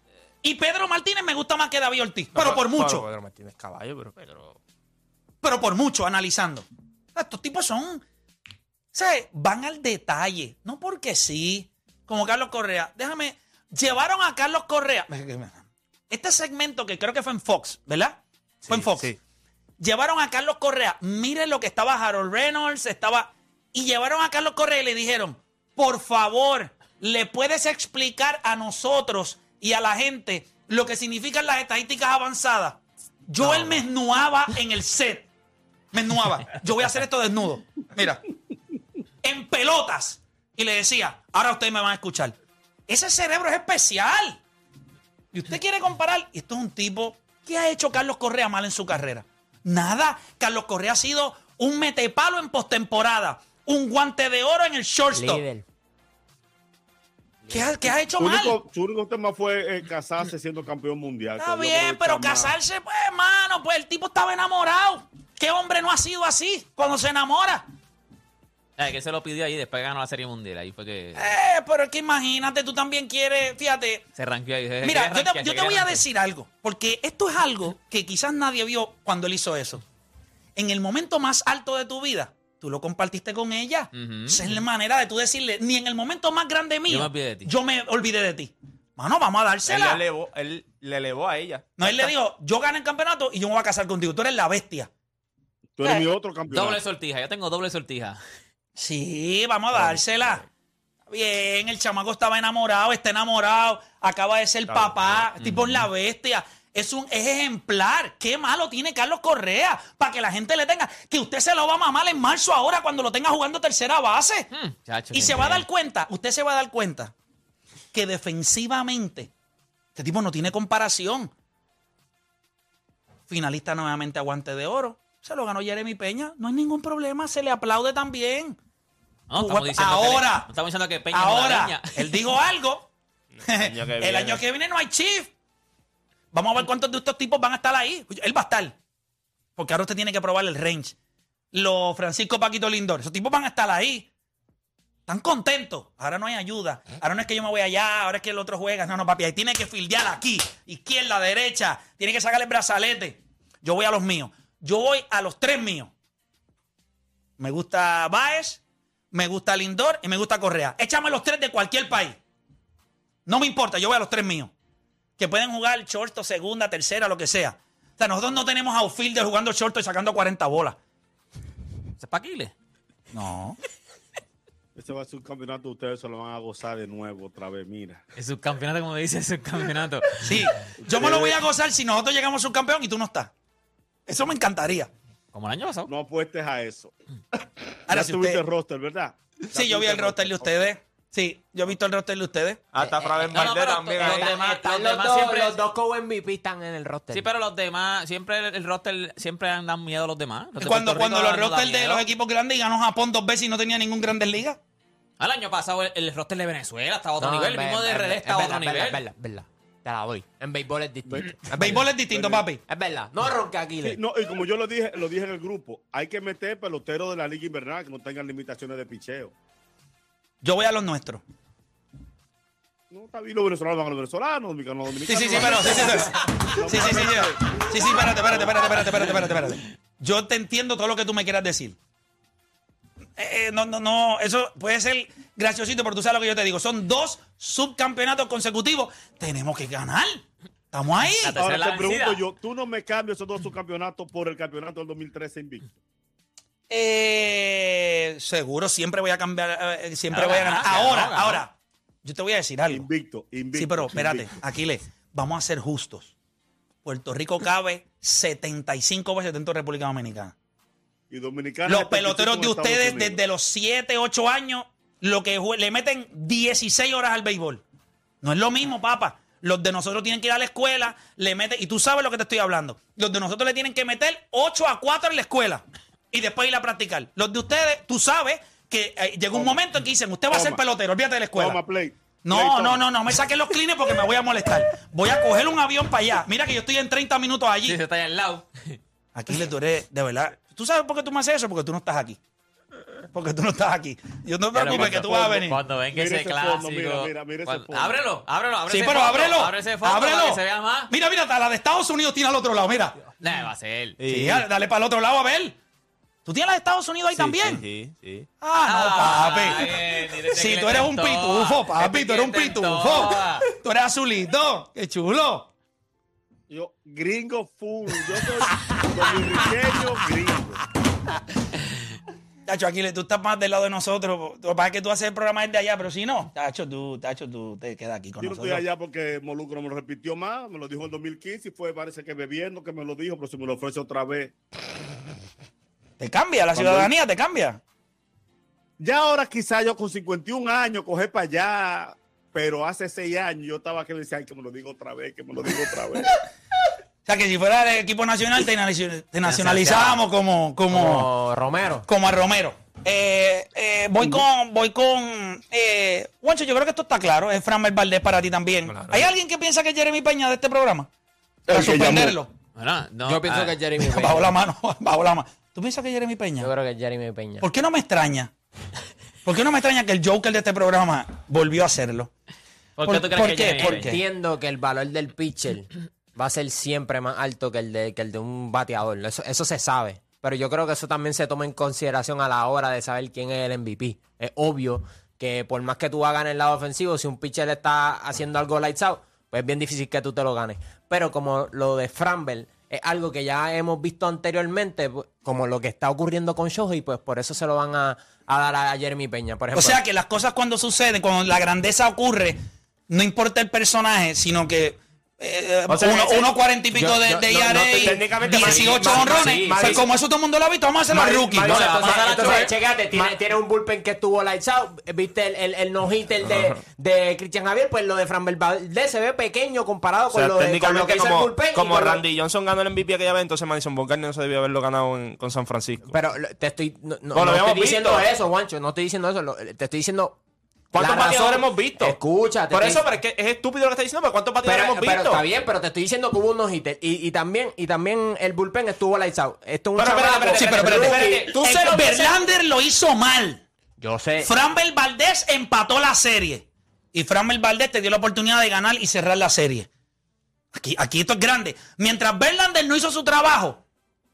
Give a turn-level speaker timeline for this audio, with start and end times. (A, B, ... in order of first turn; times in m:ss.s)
0:00.4-0:03.0 A
0:02.4-0:04.6 B
0:05.4-0:08.0 A
0:08.9-0:19.1 A
0:18.6-0:19.2 B
0:19.8-0:35.3 A
0:33.4-0:33.8 C
0:35.9-0:38.2 A
0:39.2-0:42.4 A
0:42.9-0:44.4 A
0:45.3-0:55.4 A
0:55.1-0:55.6 D
0:57.5-0:58.6 A
0:58.2-1:02.6 E
1:01.4-1:07.7 A
1:08.8-1:11.2 C
1:11.2-1:14.0 A
1:14.2-1:16.0 C
1:14.8-1:19.8 A
1:20.6-1:30.0 A
1:24.0-1:24.6 C
1:26.9-1:27.5 C
1:29.7-1:32.1 B
1:31.8-1:34.9 A
1:35.8-1:36.8 E
1:36.5-1:38.2 C
1:38.8-1:40.4 A
1:41.1-1:54.5 A
1:44.7-1:45.3 E
1:45.4-1:45.9 C
1:54.5-1:55.6 C
1:55.1-1:57.1 A
1:57.9-1:59.3 A
2:00.0-2:01.3 A
2:03.3-2:08.6 A
2:09.3-2:12.2 C
2:09.4-2:10.5 A
2:11.1-2:12.9 A
2:13.4-2:14.4 B
2:13.4-2:15.3 A
2:16.3-2:18.8 A
2:19.6-2:21.0 A
2:21.5-2:24.1 A
2:25.1-2:35.9 A
2:37.4-2:42.2 A
2:43.3-2:44.5 A
2:45.2-2:50.8 A
2:52.0-2:52.5 C
2:53.1-2:53.6 A
2:54.8-2:58.0 E
2:58.2-3:00.5 C
3:00.2-3:03.3 A
3:00.9-3:01.4 E
3:04.1-3:04.9 A
3:05.3-3:05.9 C
3:05.9-3:06.9 E
3:07.9-3:10.7 E
3:07.9-3:08.4 A
3:09.5-3:12.7 A
3:12.7-3:14.3 B
3:13.3-3:15.6 C
3:14.0-3:17.3 D
3:17.1-3:22.0 C
3:20.6-3:24.6 A
3:25.2-3:29.0 C
3:27.2-3:32.0 D
3:31.1-3:32.4 E
3:31.5-3:32.6 A
3:32.7-3:34.0 D
3:33.8-3:39.3 E
3:40.4-3:41.2 A
3:42.9-3:48.8 E
3:45.1-3:51.8 A
3:53.2-4:01.4 A
4:01.2-4:02.2 C
4:01.3-4:05.7 E
4:06.7-4:12.9 A
4:10.1-4:11.4 C
4:12.7-4:14.3 E
4:13.5-4:16.2 A
4:16.8-4:20.3 A
4:21.1-4:23.2 E
4:21.7-4:27.6 A
4:28.2-4:41.6 A
4:39.3-4:39.6 E
4:40.3-4:40.6 E
4:41.3-4:42.8 E
4:42.2-4:47.8 A
4:47.7-4:48.8 C
4:49.1-4:52.2 A
4:53.1-4:55.6 A
4:54.5-5:00.9 C
4:54.6-4:58.0 E
4:58.7-5:00.4 A
5:00.9-5:03.0 A
5:03.2-5:04.0 C
5:04.0-5:04.4 B
5:04.1-5:05.6 A
5:06.3-5:07.6 A
5:07.1-5:08.3 B
5:08.4-5:15.5 A
5:08.7-5:13.4 C
5:16.5-5:20.6 E
5:18.5-5:19.4 A
5:22.5-5:28.6 A
5:28.2-5:34.4 E
5:36.0-5:37.6 A
5:36.6-5:36.9 E
5:38.8-5:46.2 E
5:47.1-5:51.1 A
5:49.3-5:49.8 C
5:49.4-5:50.0 D
5:50.7-5:51.8 D
5:51.9-6:00.9 A
5:58.7-5:59.0 B
6:01.5-6:02.2 E
6:01.5-6:02.3 A
6:02.6-6:03.6 C
6:03.0-6:04.4 D
6:03.8-6:06.5 A
6:06.4-6:07.5 D
6:07.4-6:08.3 A
6:09.2-6:12.1 A
6:12.8-6:14.0 C
6:12.8-6:14.0 A
6:13.4-6:39.8 D
6:39.5-6:52.4 A
6:45.7-6:46.3 B
6:46.7-6:49.9 D
6:47.6-6:49.8 B
6:50.9-7:02.0 D
6:51.5-6:52.5 C
6:56.2-6:56.6 B
7:00.1-7:05.9 B
7:05.9-7:10.2 D
7:07.1-7:08.1 B
7:10.7-7:12.0 B
7:10.8-7:12.8 D
7:12.5-7:15.2 B
7:14.4-7:22.1 D
7:19.8-7:22.0 B
7:20.4-7:23.4 A
7:23.8-7:24.3 D
7:24.2-7:29.7 A
7:30.5-7:33.6 A